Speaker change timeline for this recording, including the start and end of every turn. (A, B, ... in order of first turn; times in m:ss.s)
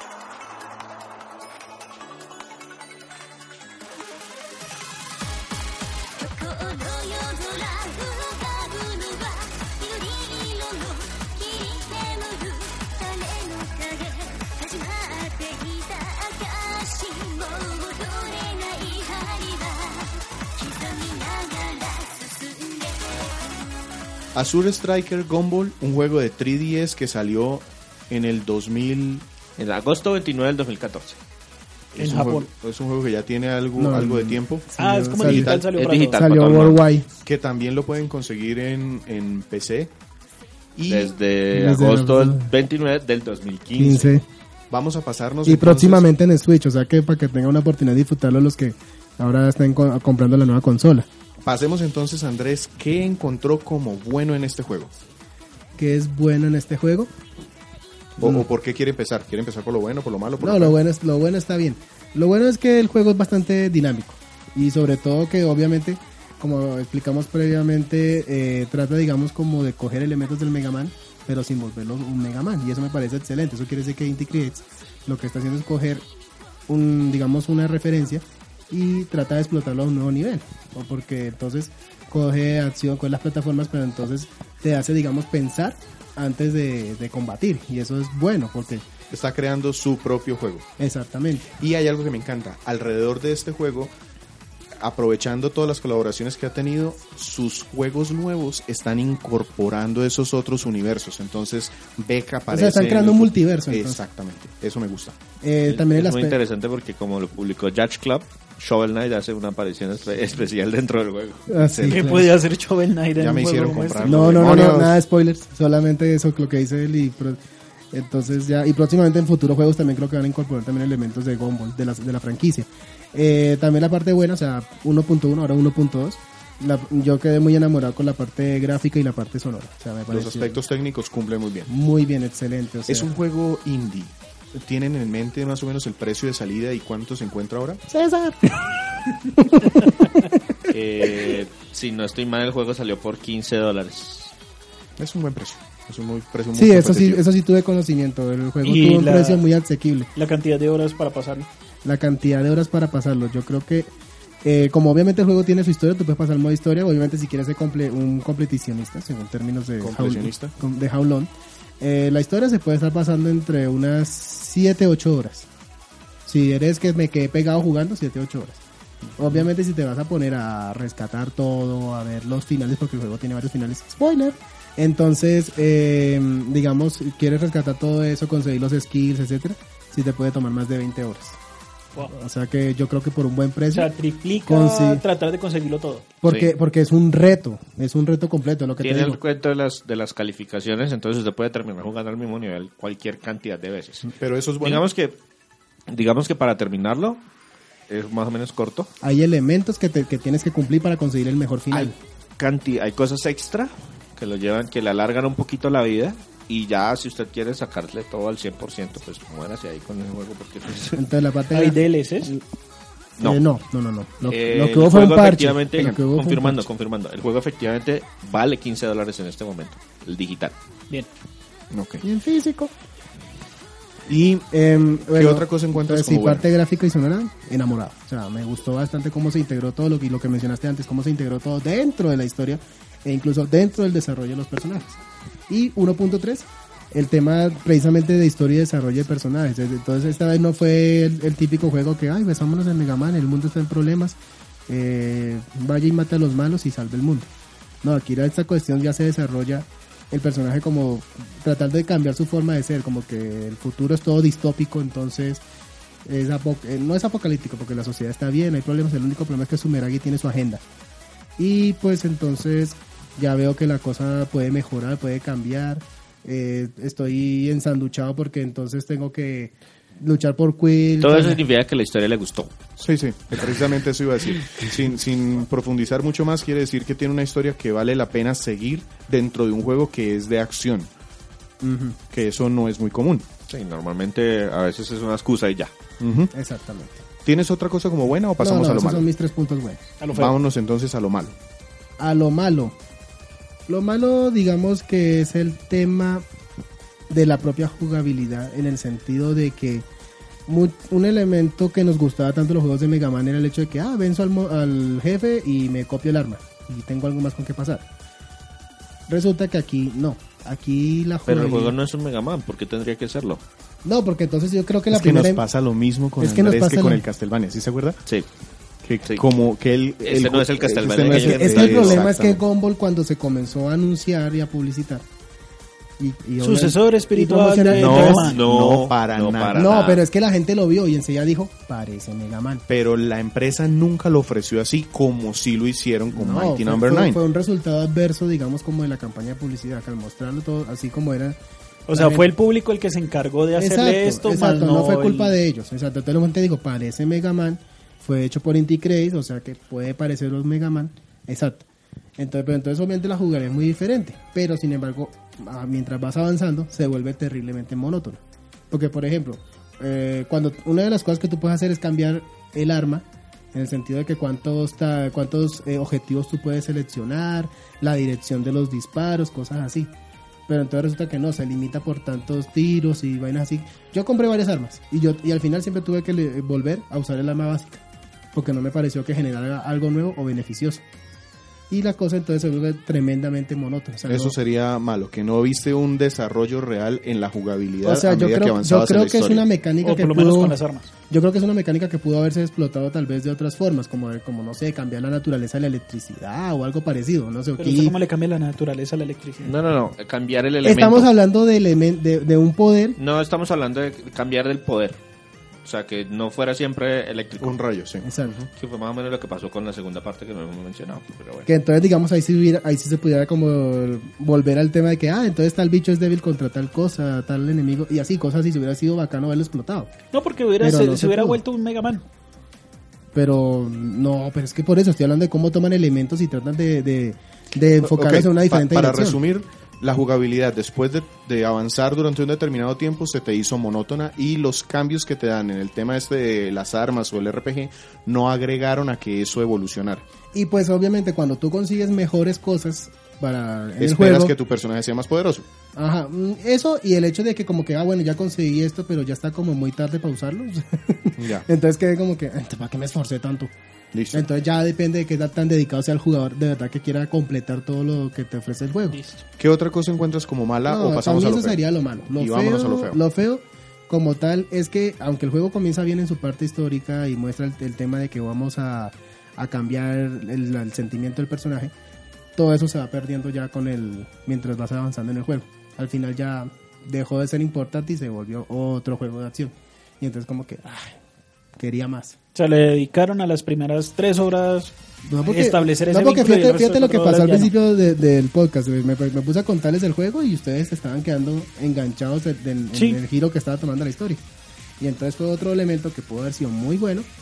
0:06.2-0:23.6 A
0:24.3-0:29.2 B
0:29.6-0:31.2 C
0:31.9-0:35.6 B
0:32.0-0:32.5 D
0:33.8-0:35.6 E
0:34.8-0:36.2 D
0:35.6-0:36.8 C
0:36.1-0:37.1 E
0:37.2-0:39.9 B
0:40.7-0:41.1 B
0:40.9-0:44.1 C
0:41.5-0:42.5 E
0:43.8-0:44.2 E
0:44.7-0:46.0 B
0:45.4-0:51.1 E
0:51.4-0:54.9 B
0:55.8-0:57.1 E
0:58.2-1:00.7 B
0:58.2-0:58.5 E
1:00.4-1:16.0 E
1:16.7-1:28.8 E
1:29.1-1:30.7 B
1:30.8-1:31.5 E
1:31.6-1:33.9 B
1:34.8-1:45.2 B
1:42.5-1:44.0 E
1:45.4-1:46.4 E
1:45.6-1:51.6 C
1:51.5-1:52.3 E
1:51.7-1:52.0 B
1:51.9-1:54.4 D
1:53.2-1:55.0 B
1:54.0-1:57.4 E
1:57.9-2:10.6 E
2:10.1-2:11.7 B
2:11.7-2:13.1 E
2:12.9-2:17.8 B
2:17.9-2:18.8 E
2:19.3-2:20.4 E
2:20.7-2:24.3 C
2:25.0-2:27.2 B
2:26.5-2:30.1 E
2:28.6-2:29.4 D
2:30.2-2:31.5 D
2:31.8-2:33.9 E
2:34.4-2:45.5 E
2:39.8-2:40.5 B
2:46.2-2:48.6 E
2:49.2-3:01.4 E
3:02.1-3:03.9 E
3:03.7-3:06.1 D
3:04.4-3:05.0 E
3:06.2-3:09.2 E
3:06.2-3:06.5 C
3:08.8-3:14.1 C
3:14.1-3:14.8 B
3:14.6-3:15.2 C
3:15.9-3:17.2 C
3:17.9-3:18.9 C
3:19.0-3:21.9 E
3:21.7-3:31.0 C
3:30.9-3:32.4 E
3:31.5-3:32.3 D
3:33.2-3:36.6 E
3:34.2-3:40.5 C
3:41.7-3:42.0 B
3:42.0-3:42.7 E
3:44.1-3:44.4 B
3:44.4-4:04.2 E
3:45.1-3:46.4 B
4:04.7-4:07.3 E
4:07.8-4:15.4 E
4:16.0-4:20.6 E
4:21.4-4:31.4 E
4:31.0-4:32.5 C
4:32.8-4:40.9 B
4:41.6-4:42.0 E
4:42.1-4:43.2 B
4:43.5-4:45.7 C
4:46.0-4:46.3 B
4:46.3-4:47.0 E
4:47.2-4:49.0 B
4:48.4-4:49.9 E
4:50.0-4:50.4 D
4:50.1-4:51.3 B
4:52.0-4:52.8 E
4:53.7-4:56.2 E
4:57.1-4:59.8 E
5:00.5-5:07.8 E
5:09.1-5:11.7 E
5:11.2-5:13.4 C
5:13.8-5:15.4 E
5:14.9-5:18.0 B
5:16.2-5:17.0 E
5:18.8-5:22.4 B
5:20.0-5:22.0 C
5:21.0-5:25.0 E
5:26.0-5:28.3 E
5:26.4-5:28.4 D
5:27.8-5:29.7 B
5:28.0-5:30.0 C
5:29.5-5:32.6 E
5:32.7-5:37.2 B
5:36.1-5:41.4 E
5:41.9-5:45.3 D
5:41.9-5:42.3 E
5:43.6-5:51.6 E
5:52.2-6:09.9 E
6:10.5-6:17.8 E
6:18.3-6:20.8 E
6:21.7-6:24.4 E
6:24.1-6:29.4 B
6:27.8-6:38.0 E
6:29.8-6:30.9 D
6:37.6-6:39.5 D
6:39.4-6:41.1 C
6:40.6-6:43.0 E
6:43.0-6:45.0 C
6:45.6-6:47.6 C
6:47.4-6:48.5 B
6:48.0-6:48.4 E
6:48.6-6:51.5 C
6:51.4-6:59.9 E
7:00.1-7:02.0 D
7:00.6-7:01.4 E
7:03.1-7:09.2 E
7:07.8-7:20.0 B
7:20.3-7:24.3 E
7:23.8-7:25.5 B
7:25.7-7:33.5 E
7:31.2-7:31.4 B
7:33.9-7:34.2 B
7:34.1-7:39.0 E
7:38.9-7:39.2 D
7:39.4-7:41.6 B
7:40.6-7:51.7 E
7:42.1-7:43.0 B
7:52.4-8:01.0 E
8:01.6-8:02.2 E
8:02.3-8:07.5 D
8:05.0-8:14.2 E
8:12.7-8:13.0 D
8:14.8-8:17.1 E